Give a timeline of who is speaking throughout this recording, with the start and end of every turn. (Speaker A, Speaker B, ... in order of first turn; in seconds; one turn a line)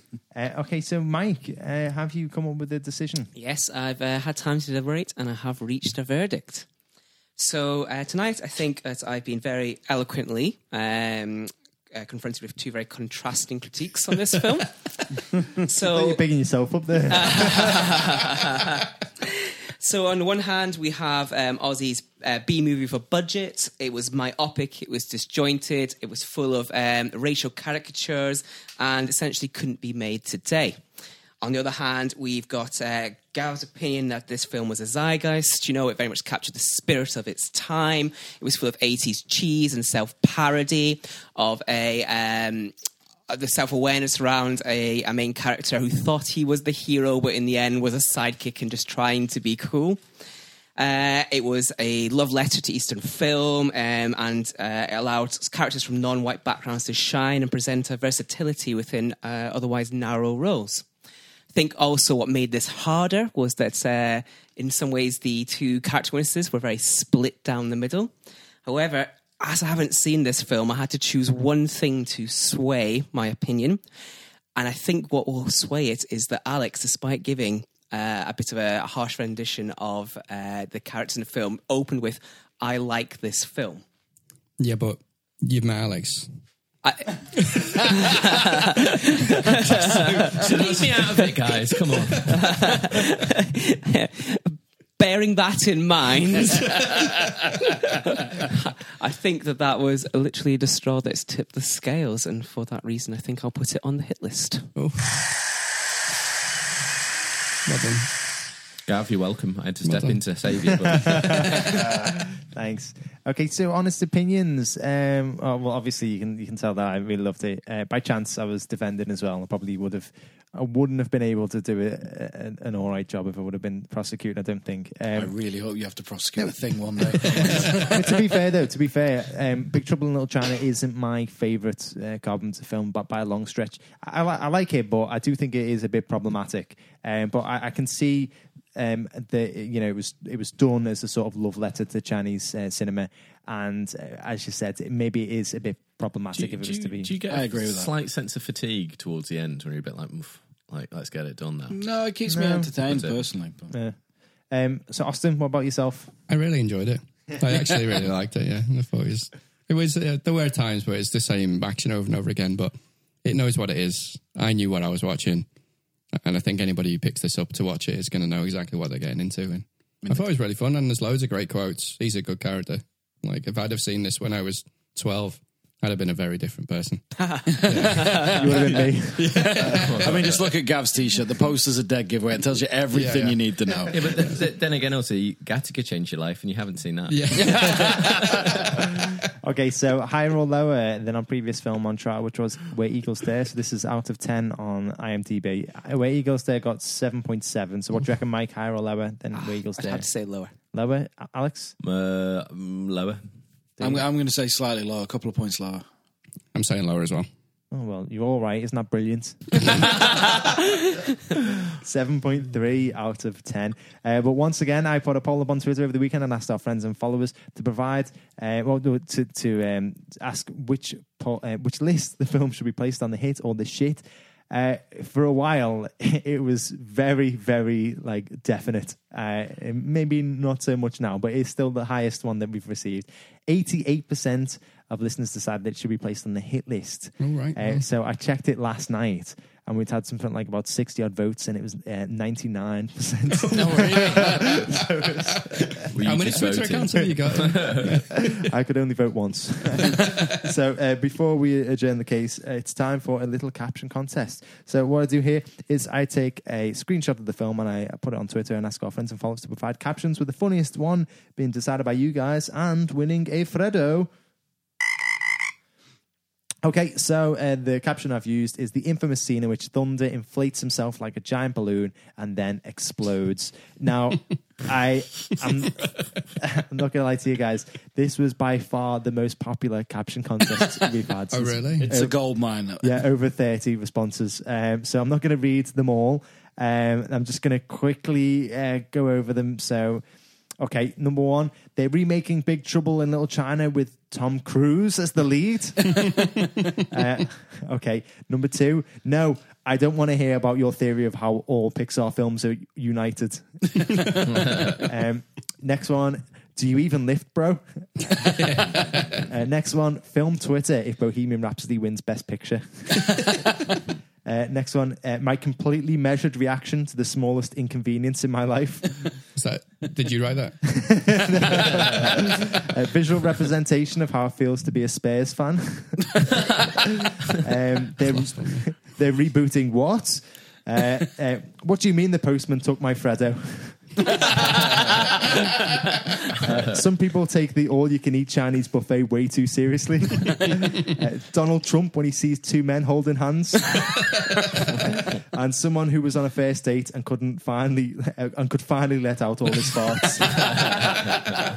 Speaker A: 0.3-3.3
Speaker B: 3.3-6.7
Speaker B: 7.4-16.2
Speaker A: 15.8-17.8
Speaker B: 17.1-30.8
Speaker B: 31.4-42.7
Speaker B: 43.3-50.0
Speaker B: 50.8-60.9
Speaker B: 61.5-68.1
Speaker B: 68.6-73.8
Speaker B: 74.5-83.8
Speaker C: 84.6-86.4
Speaker B: 86.8-91.1
Speaker C: 87.3-88.0
Speaker C: 89.7-91.0
Speaker D: 89.8-92.5
Speaker B: 92.2-104.7
Speaker C: 104.7-105.3
Speaker C: 107.6-108.1
Speaker D: 108.9-111.7
Speaker C: 109.8-110.2
Speaker A: 110.9-125.3
Speaker C: 111.0-111.5
Speaker E: 125.1-128.2
Speaker A: 127.0-147.1
Speaker D: 146.3-151.8
Speaker E: 147.3-147.9
Speaker E: 151.7-153.7
Speaker A: 152.2-152.7
Speaker D: 152.8-153.2
Speaker A: 153.7-154.0
Speaker A: 154.5-156.1
Speaker C: 156.3-165.5
Speaker C: 166.2-177.1
Speaker B: 177.2-178.4
Speaker E: 177.5-178.4
Speaker C: 177.6-178.3
Speaker A: 178.3-179.5
Speaker C: 179.2-180.2
Speaker E: 179.3-184.1
Speaker D: 179.7-180.5
Speaker C: 182.9-183.8
Speaker D: 183.9-188.5
Speaker C: 187.1-188.6
Speaker E: 187.3-188.2
Speaker A: 189.4-200.1
Speaker B: 199.4-200.5
Speaker A: 200.7-201.7
Speaker D: 201.8-203.2
Speaker A: 203.8-204.1
Speaker E: 203.8-205.8
Speaker C: 206.5-207.3
Speaker A: 207.7-209.9
Speaker A: 211.8-245.9
Speaker C: 237.2-237.8
Speaker E: 243.5-244.8
Speaker C: 245.8-248.2
Speaker D: 245.9-248.0
Speaker A: 248.3-264.1
Speaker A: 266.6-290.0
Speaker C: 281.3-282.0
Speaker E: 281.8-283.0
Speaker A: 290.6-296.2
Speaker A: 296.9-313.3
Speaker C: 308.4-309.2
Speaker A: 314.2-319.1
Speaker C: 319.3-321.9
Speaker A: 320.7-326.3
Speaker A: 326.8-334.1
Speaker C: 328.1-328.6
Speaker A: 336.4-350.7